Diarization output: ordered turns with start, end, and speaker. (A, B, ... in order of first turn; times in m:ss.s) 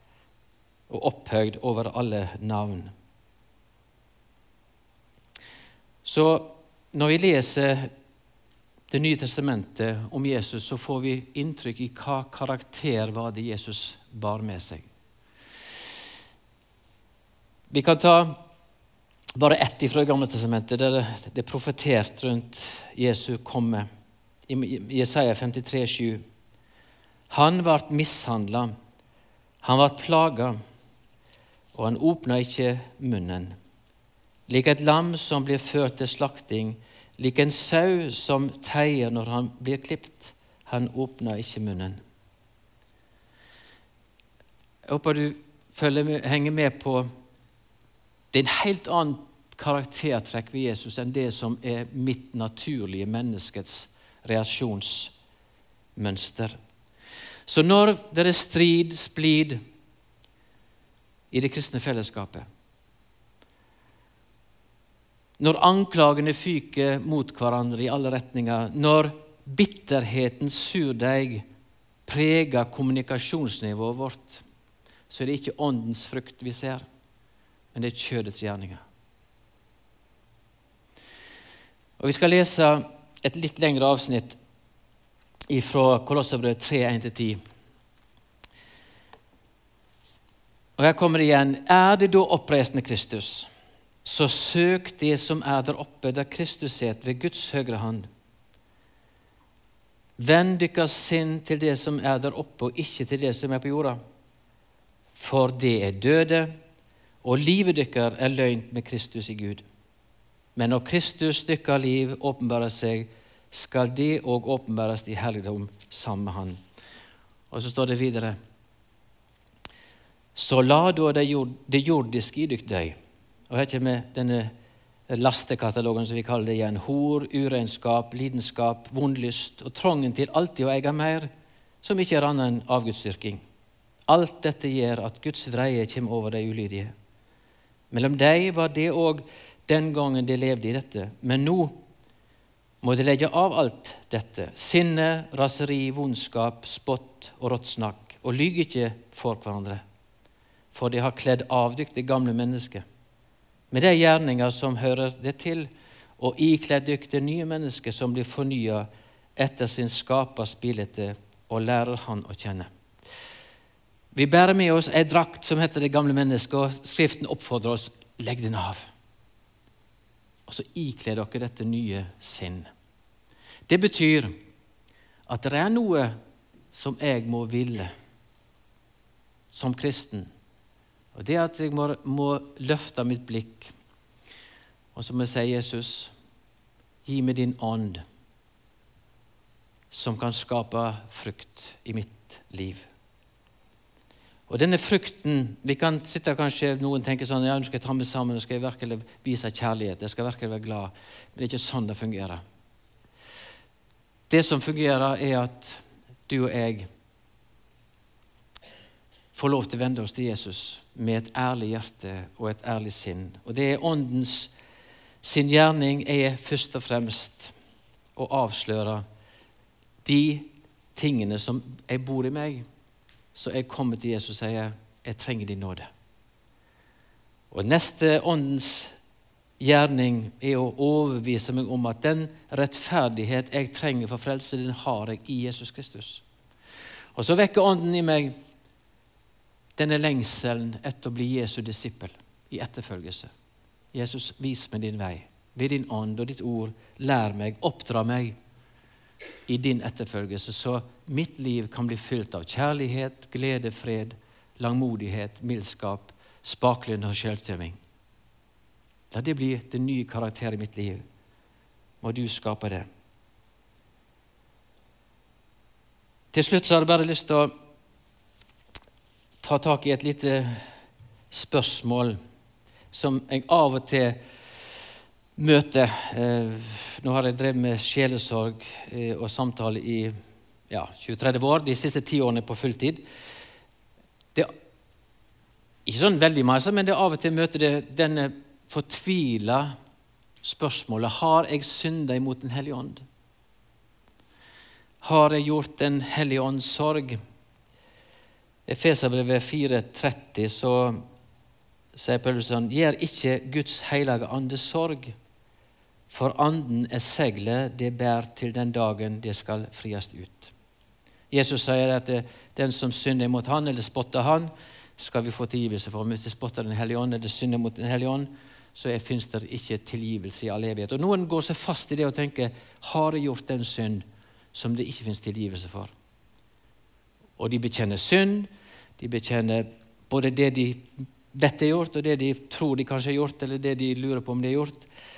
0:00.9-0:02.9 A
0:06.0-0:07.9 A
0:08.9-0:14.8 A
0:17.7-0:18.4 A
0:19.4-0:23.8 A
0:24.5-0:26.2 A
0:27.3-0:28.7 A
0:29.6-0:30.6 A
0:31.7-0:33.6 A
0:34.5-0:42.0 A
0:44.8-0:47.1 A
0:48.3-0:55.1 A
0:56.0-0:56.6 A
0:57.5-0:59.6 A
1:01.3-1:02.5 A
1:05.4-1:11.4 A
1:12.1-1:14.4 A
1:15.1-1:16.8 A
1:17.7-1:18.8 A
1:22.0-1:24.4 A
1:25.5-1:27.4 A
1:30.8-1:33.5 A
1:34.0-1:38.1 A
1:40.2-1:44.0 A
1:45.2-1:46.5 A
1:47.2-1:49.6 A
1:50.6-1:56.6 A
1:57.5-1:58.4 A
2:00.3-2:03.0 A
2:03.5-2:04.5 A
2:05.1-2:11.3 A
2:11.8-2:13.4 A
2:14.1-2:16.9 A
2:17.9-2:21.8 A
2:22.8-2:29.8 A
2:30.7-2:32.8 A
2:33.7-2:42.7 A
2:44.1-2:48.9 A
2:50.5-2:52.7 A
2:53.7-2:54.3 A
2:55.3-2:56.1 A
2:56.7-2:57.9 A
2:59.5-3:00.3 A
3:01.1-3:03.7 A
3:04.9-3:06.1 A
3:07.0-3:08.0 A
3:09.9-3:12.9 A
3:14.5-3:22.4 A
3:24.3-3:26.9 A
3:29.3-3:34.5 A
3:35.2-3:37.5 A
3:38.2-3:39.0 A
3:40.0-3:42.6 A
3:43.3-3:45.9 A
3:47.5-3:48.9 A
3:49.6-3:56.2 A
3:57.1-3:58.3 A
3:59.8-4:03.3 A
4:03.9-4:08.3 A
4:09.5-4:17.8 A
4:19.1-4:21.0 A
4:22.0-4:22.9 A
4:26.3-4:27.5 A
4:29.4-4:30.6 A
4:31.3-4:32.2 A
4:32.9-4:34.2 A
4:35.4-4:40.1 A
4:40.7-4:43.0 A
4:45.8-4:49.7 A
4:50.4-4:53.0 A
4:55.0-4:57.2 A
4:58.7-5:01.0 A
5:01.9-5:05.1 A
5:06.1-5:10.5 A
5:11.3-5:25.9 A
5:27.4-5:34.9 A